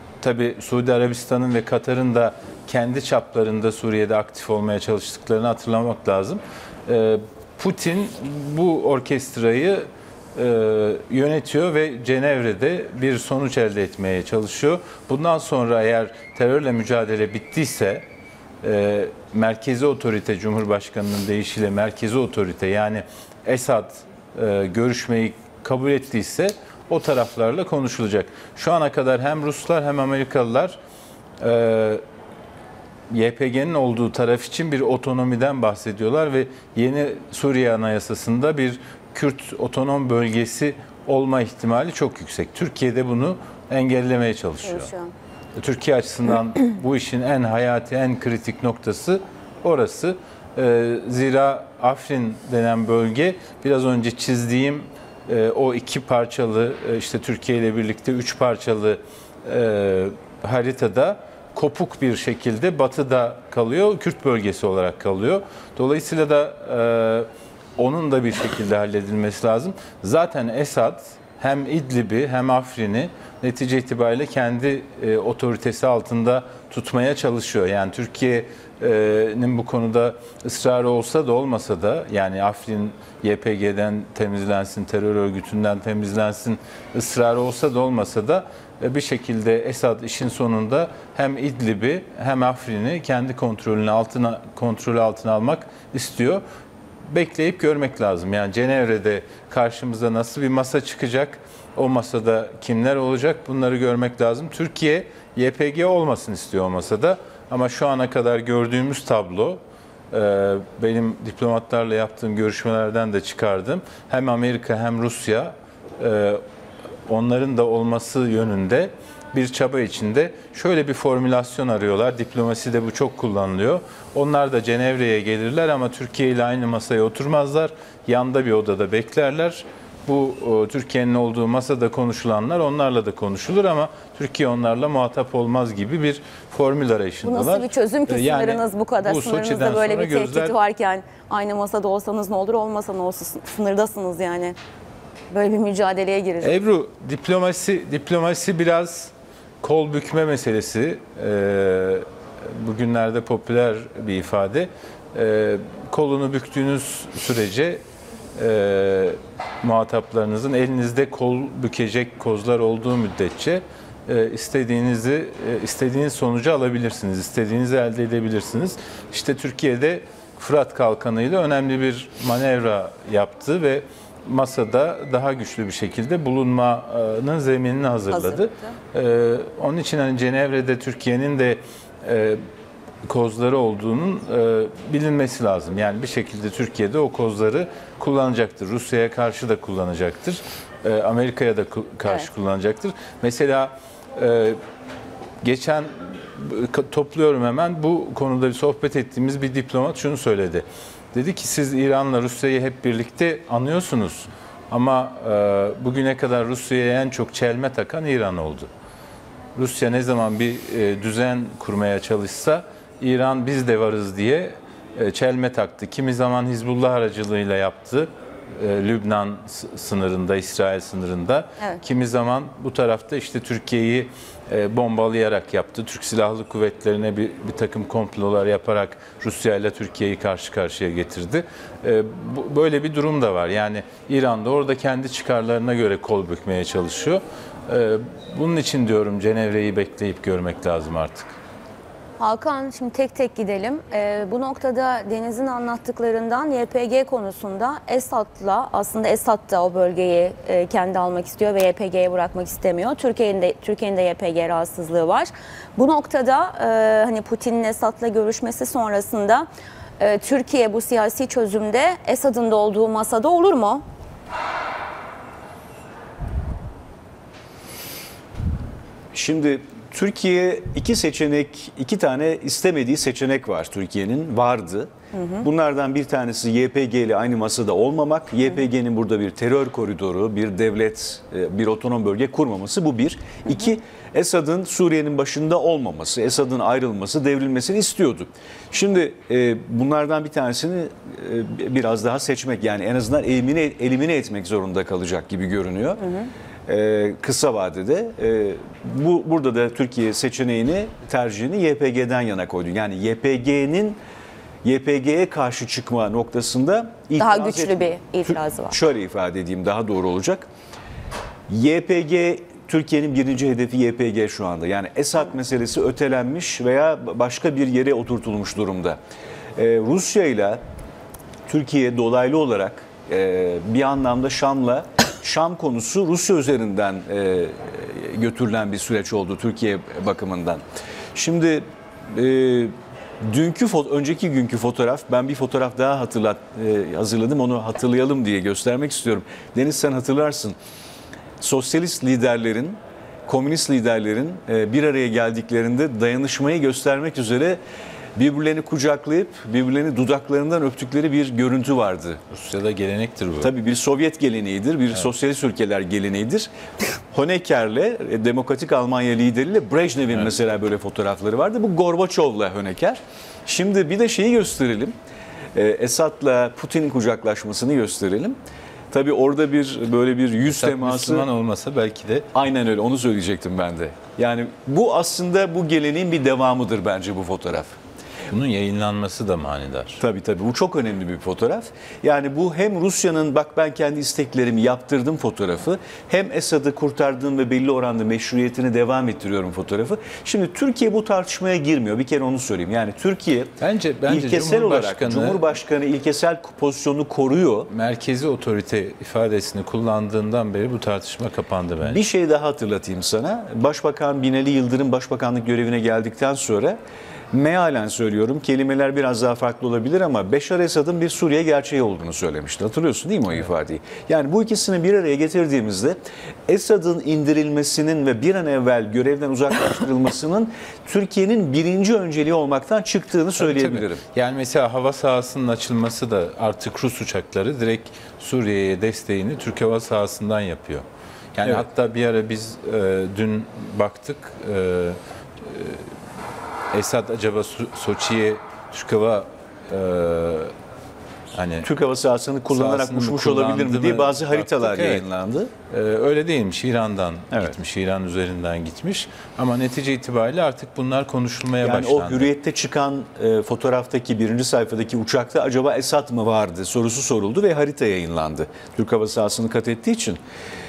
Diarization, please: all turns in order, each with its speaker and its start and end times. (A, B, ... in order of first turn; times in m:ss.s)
0:00.2-0:18.1 A
0:18.6-0:30.8 A
0:31.4-0:32.0 A
0:33.1-0:44.9 A
0:44.6-0:45.1 B
0:45.6-1:36.4 A
1:37.1-1:49.6 A
1:50.1-1:56.4 A
1:57.1-2:20.5 A
2:17.2-2:24.6 B
2:25.3-2:26.6 B
2:26.4-2:37.8 A
2:38.4-3:02.4 A
2:58.1-2:58.7 B
3:03.0-3:14.6 A
3:15.4-3:28.7 A
3:29.6-4:01.4 A
4:02.2-4:19.5 B
4:20.0-4:23.8 B
4:29.1-4:56.0 C
4:35.1-4:35.4 B
4:56.0-4:56.3 B
4:56.7-5:04.0 C
5:04.6-5:10.5 C
5:07.2-5:08.8 B
5:11.5-5:19.0 C
5:19.6-5:20.6 C
5:21.5-5:30.6 C
5:31.2-5:40.6 C
5:41.4-5:47.6 C
5:48.2-5:52.2 C
5:52.3-5:53.5 A
5:53.4-5:56.5 C
5:57.1-6:04.9 C
6:05.6-6:08.4 C
6:08.9-6:11.3 C
6:10.5-6:12.3 A
6:12.3-6:17.8 C
6:18.3-6:20.0 A
6:20.0-6:37.7 C
6:33.6-6:35.5 A
6:37.7-6:42.0 A
6:41.8-6:46.8 C
6:47.3-7:04.0 C
7:03.4-7:10.8 A
7:11.4-7:15.9 A
7:16.7-7:20.5 A
7:21.3-7:21.7 A
7:21.6-7:25.5 C
7:22.5-7:25.0 A
7:25.7-7:32.3 A
7:31.6-7:40.2 C